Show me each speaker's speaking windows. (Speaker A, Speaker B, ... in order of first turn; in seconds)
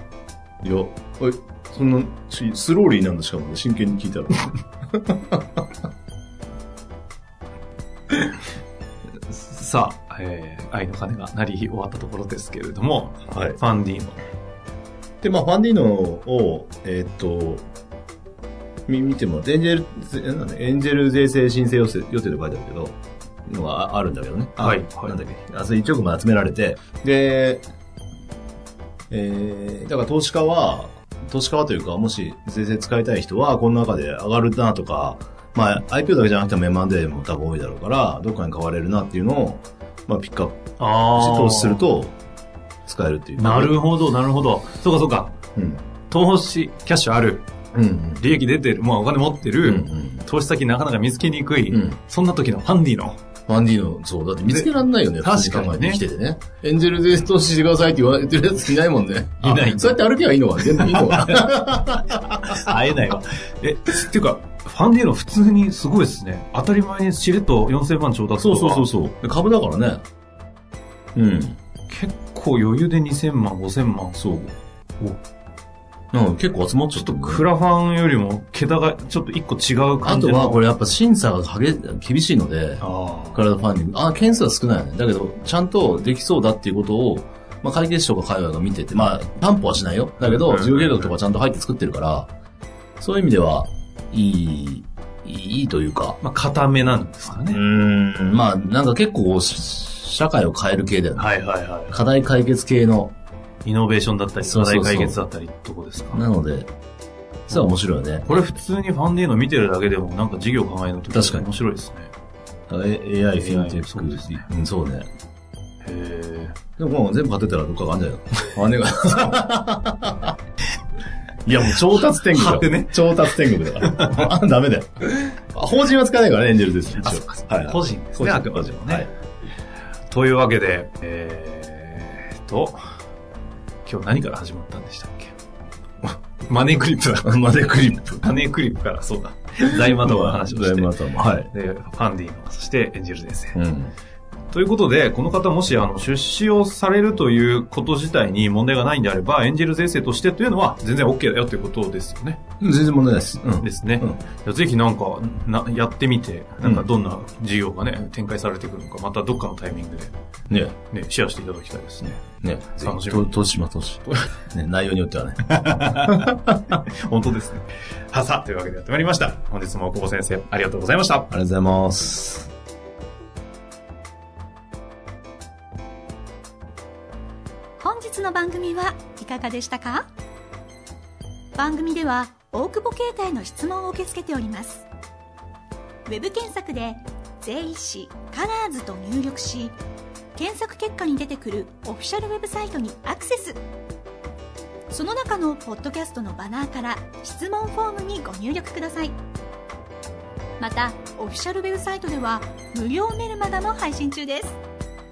Speaker A: 0.6-5.6, 13.2-13.6, 15.2-17.6, 18.9-22.9, 23.5-27.6, 29.1-42.1, 42.9-43.8, 45.5-45.8, 47.7-48.2, 49.6-50.2, 51.7-52.0, 53.5-62.6, 68.4-70.0, 71.1-71.6, 74.2-74.5, 76.1-77.5, 80.0-92.3, 93.0-96.2, 97.5-101.3, 101.9-103.1, 104.4-105.2, 106.1-106.7, 107.5-108.3, 111.1-111.5, 112.7-115.1, 116.8-120.3, 121.4-129.1, 137.2-138.2, 139.6-141.5, 143.5-143.9, 152.6-154.2, 156.6-156.8, 160.5-160.8, 162.4-166.6, 171.3-172.5
Speaker B: 9.2-14.2, 24.6-25.2, 40.8-41.9, 43.4-45.4, 46.1-47.5, 48.2-53.2, 55.2-56.0, 59.4-60.0, 60.6-68.8, 71.9-74.3, 77.0-80.6, 82.8-83.4, 90.2-91.1, 96.2-97.6, 101.2-102.0, 103.6-106.2, 107.5-112.1, 113.4-114.4, 115.8-116.5, 122.2-124.3, 127.0-129.1, 130.1-132.9, 133.8-135.3, 136.5-137.4, 138.2-143.6, 144.5-152.4, 153.6-160.1, 160.9-163.3, 165.5-171.3
Speaker C: 177.8-180.1, 181.6-184.9, 186.1-189.8, 190.3-193.6, 194.9-199.1, 200.6-204.6